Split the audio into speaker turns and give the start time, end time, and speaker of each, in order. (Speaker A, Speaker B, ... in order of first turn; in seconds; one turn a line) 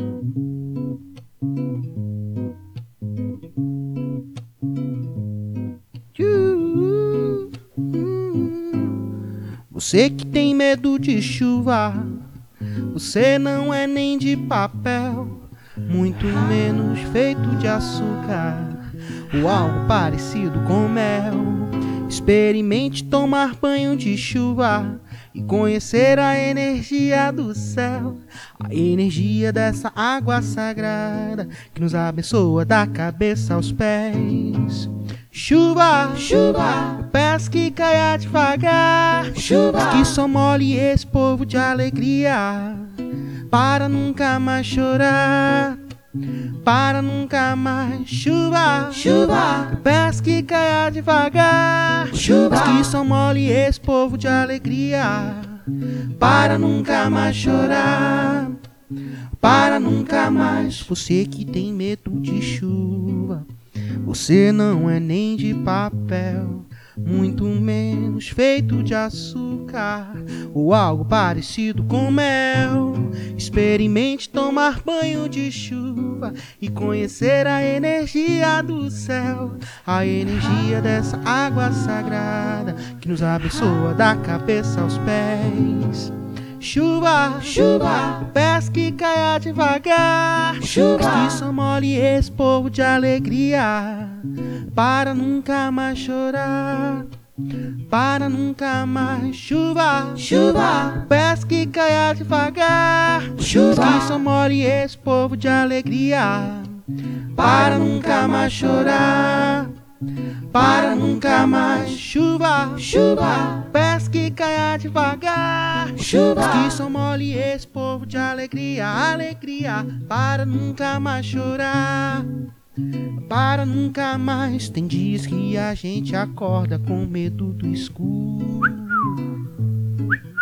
Speaker A: 6.2-9.1
Speaker A: 9.7-12.2
Speaker A: 12.9-45.8
Speaker A: 46.6-58.6
Speaker A: 59.4-63.5
Speaker A: 64.0-97.1
Speaker A: 97.9-109.7
Speaker A: 110.5-122.3
Speaker A: 123.2-129.3